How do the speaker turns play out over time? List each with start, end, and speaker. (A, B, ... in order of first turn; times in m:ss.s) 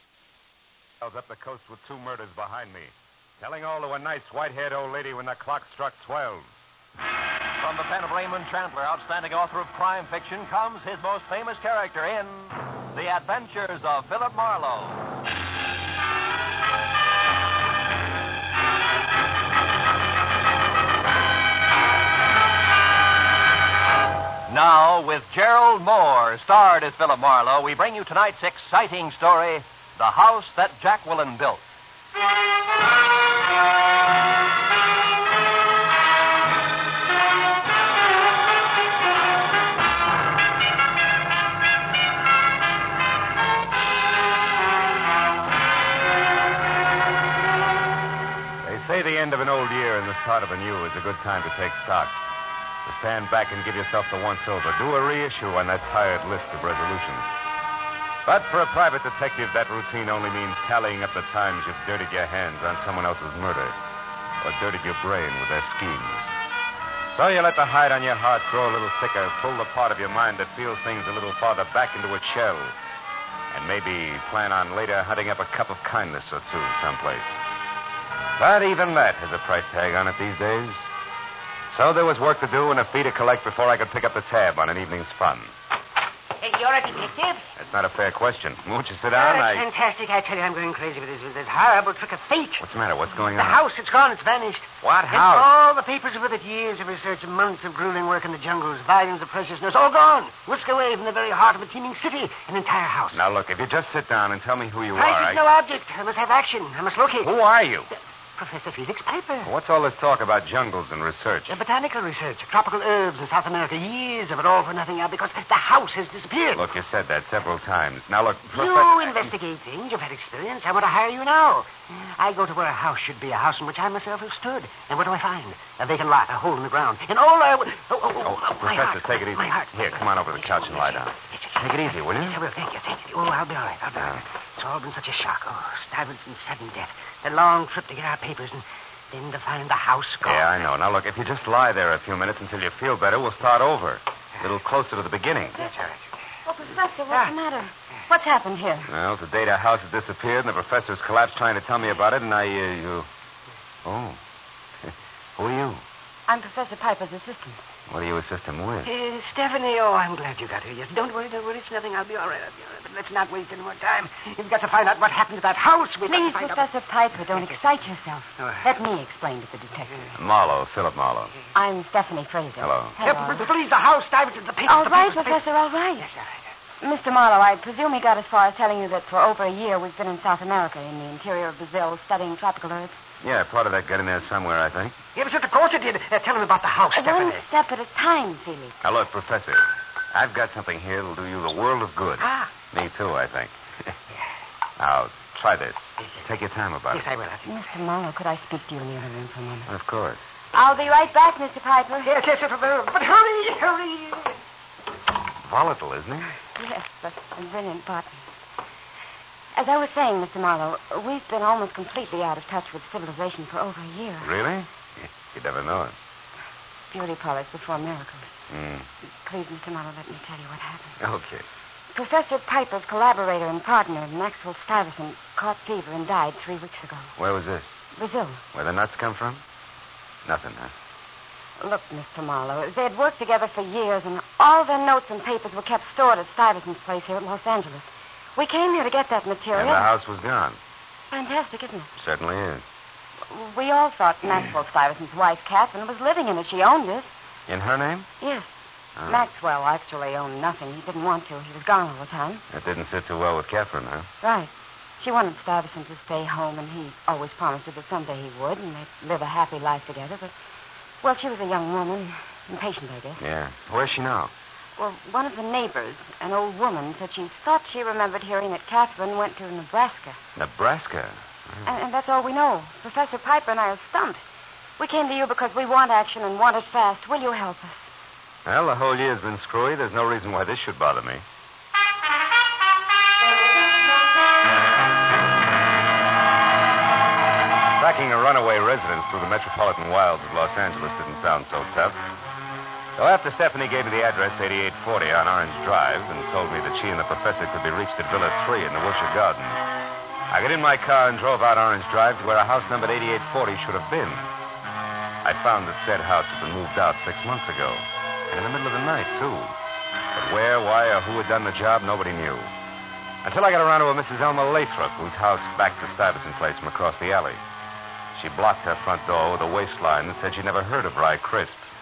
0:01.0-0:06.5 A
0:07.6-0:15.0 B
0:24.5-0:31.6 B
0:48.6-0:52.2 A
0:52.8-0:57.2 A
0:58.2-1:03.8 A
1:04.4-1:06.3 A
1:07.1-1:12.7 A
1:13.5-1:17.3 A
1:18.4-1:20.8 A
1:21.7-1:25.5 A
1:26.4-1:27.4 C
1:27.6-1:29.6 A
1:29.1-1:32.6 C
1:32.6-1:33.6 A
1:33.3-1:43.2 C
1:34.8-1:35.5 A
1:43.1-1:45.4 A
1:44.9-1:47.3 C
1:47.2-1:47.9 A
1:48.4-1:49.5 C
1:49.4-1:51.6 A
1:51.5-1:56.7 C
1:56.5-1:59.3 A
1:58.5-2:20.5 C
2:08.2-2:12.4 A
2:14.0-2:14.2 A
2:20.2-2:25.6 A
2:25.6-2:26.0 C
2:26.4-2:28.9 D
2:28.9-2:33.1 A
2:33.8-2:34.2 A
2:34.8-2:35.8 A
2:36.3-2:37.6 D
2:37.9-2:38.9 A
2:38.8-2:46.7 C
2:46.0-2:50.1 D
2:48.4-2:48.6 C
2:50.1-2:51.3 A
2:51.5-2:53.5 D
2:52.6-2:53.0 A
2:53.0-2:55.4 C
2:54.6-2:56.1 D
2:56.0-2:56.3 C
2:56.8-3:03.0 D
3:03.2-3:04.9 A
3:05.1-3:07.4 C
3:06.9-3:08.7 D
3:08.8-3:13.9 A
3:12.2-3:12.5 C
3:14.8-3:17.0 A
3:16.9-3:17.4 C
3:17.4-3:19.7 D
3:19.7-3:20.2 A
3:20.5-3:22.2 D
3:22.0-3:24.3 C
3:25.4-3:26.3 A
3:26.6-3:28.2 D
3:29.5-3:34.3 D
3:34.2-3:35.9 A
3:36.9-3:38.3 D
3:38.5-3:38.9 A
3:39.2-3:41.0 D
3:41.0-3:41.4 A
3:41.9-3:47.1 D
3:47.2-3:47.8 A
3:48.0-3:48.4 D
3:48.5-3:49.4 A
3:50.2-3:50.7 A
3:51.6-3:59.9 D
3:59.5-4:00.6 A
4:01.1-4:01.9 D
4:02.0-4:02.6 A
4:03.3-4:07.1 D
4:07.5-4:08.1 A
4:08.2-4:08.5 D
4:09.0-4:09.2 A
4:09.0-4:12.4 D
4:12.5-4:14.1 A
4:14.2-4:20.3 D
4:21.0-4:23.2 D
4:23.2-4:24.3 A
4:24.8-4:30.2 D
4:30.4-4:31.7 A
4:31.6-4:34.2 D
4:34.8-4:37.8 D
4:38.4-4:41.2 A
4:47.8-4:52.0 A
4:53.0-4:59.6 A
5:00.3-5:04.3 A
5:05.2-5:09.5 A
5:10.1-5:12.5 A
5:13.2-5:17.4 A
5:18.1-5:21.6 A